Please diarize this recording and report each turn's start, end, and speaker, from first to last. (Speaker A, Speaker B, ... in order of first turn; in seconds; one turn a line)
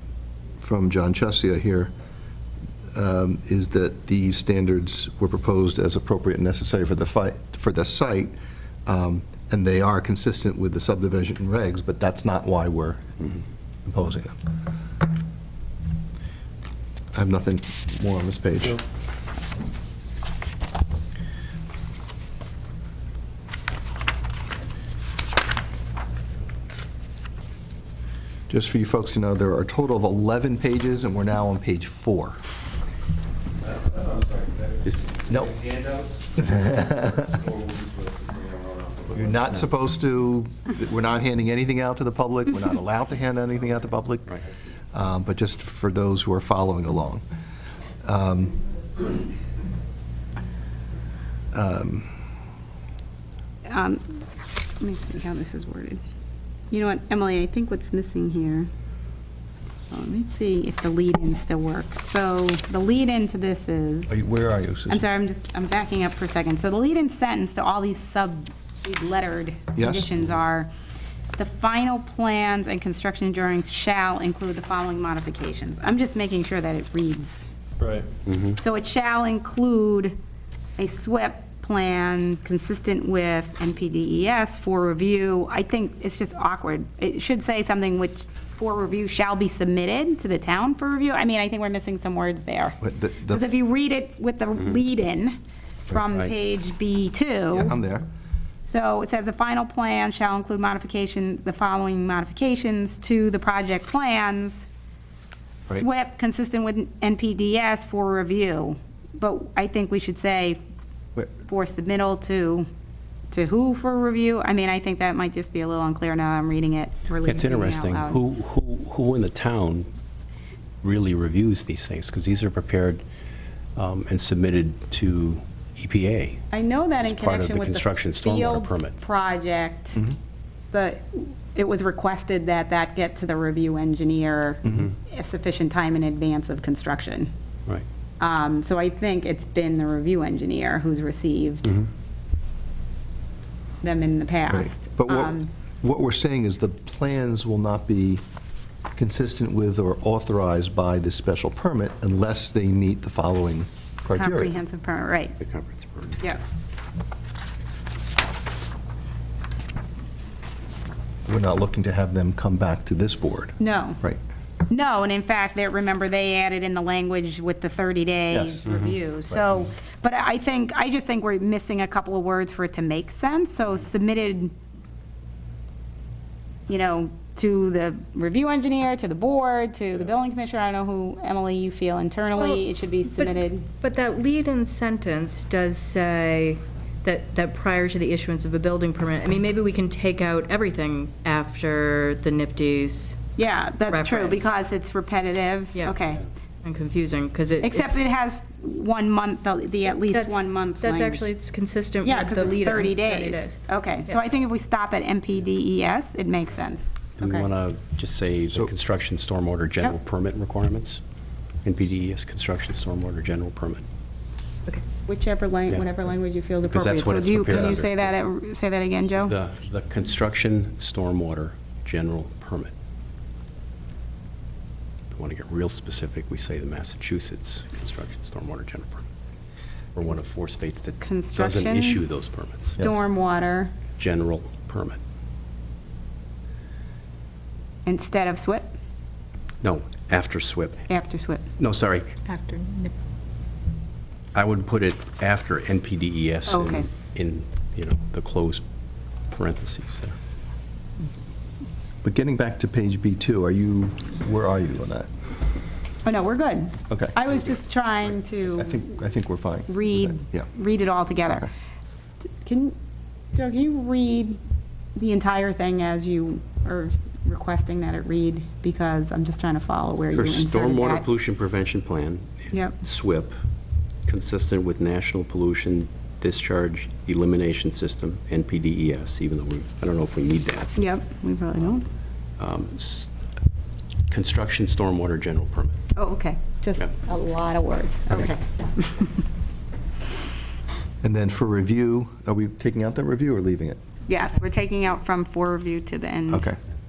Speaker A: 0.6-1.9
Speaker A: 2.9-8.3
Speaker A: 8.8-13.1
Speaker A: 13.8-14.4
Speaker A: 17.1-18.8
Speaker A: 28.5-32.4
Speaker B: 33.9-34.7
Speaker A: 35.3-35.5
Speaker B: 35.6-36.2
Speaker A: 36.4-37.3
Speaker B: 37.5-38.9
Speaker A: 39.1-44.4
Speaker A: 44.9-47.2
Speaker A: 48.0-48.6
Speaker A: 51.5-52.1
Speaker C: 53.6-54.2
Speaker C: 54.8-56.0
Speaker C: 56.7-58.7
Speaker C: 59.9-64.2
Speaker A: 64.1-65.0
Speaker C: 64.9-70.7
Speaker A: 69.7-70.2
Speaker C: 71.4-77.5
Speaker B: 77.8-78.1
Speaker D: 78.2-78.5
Speaker C: 78.5-80.1
Speaker C: 80.8-97.7
Speaker A: 92.8-93.4
Speaker A: 97.5-98.0
Speaker C: 98.7-104.7
Speaker C: 105.7-110.6
Speaker C: 111.3-112.7
Speaker C: 113.3-118.2
Speaker D: 117.2-119.9
Speaker D: 120.8-123.0
Speaker D: 123.8-126.4
Speaker C: 126.5-130.0
Speaker D: 127.0-128.9
Speaker C: 130.7-137.3
Speaker C: 138.2-141.7
Speaker C: 143.8-145.5
Speaker A: 144.5-148.2
Speaker A: 148.9-154.6
Speaker C: 154.2-155.4
Speaker D: 155.4-156.2
Speaker A: 161.2-164.2
Speaker C: 163.6-164.0
Speaker C: 164.7-174.5
Speaker A: 168.3-168.7
Speaker C: 176.7-183.7
Speaker E: 183.1-193.2
Speaker C: 193.4-196.2
Speaker E: 193.9-194.5
Speaker E: 196.6-198.1
Speaker C: 197.6-201.2
Speaker E: 199.9-204.2
Speaker C: 202.0-207.5
Speaker D: 207.2-211.0
Speaker D: 211.6-213.8
Speaker C: 215.1-219.3
Speaker D: 216.6-218.1
Speaker D: 219.2-222.7
Speaker D: 225.1-229.0
Speaker D: 229.9-232.8
Speaker C: 231.0-233.8
Speaker D: 233.9-235.0
Speaker C: 237.8-238.7
Speaker D: 239.6-240.9
Speaker C: 240.9-241.4
Speaker D: 241.6-242.1
Speaker E: 242.2-242.9
Speaker D: 244.3-248.6
Speaker C: 246.5-246.9
Speaker D: 249.3-250.2
Speaker A: 252.0-255.1
Speaker C: 256.0-258.8
Speaker A: 256.9-257.3
Speaker A: 258.4-260.5
Speaker C: 259.7-261.5
Speaker C: 262.4-262.8
Speaker C: 263.3-264.4
Speaker C: 264.9-271.0
Speaker D: 270.1-273.3
Speaker C: 272.5-272.8
Speaker D: 274.0-280.7
Speaker C: 280.8-281.9
Speaker D: 282.4-283.1
Speaker D: 284.1-285.8
Speaker C: 285.9-289.2
Speaker A: 291.0-293.8
Speaker C: 294.1-296.4
Speaker A: 296.3-296.6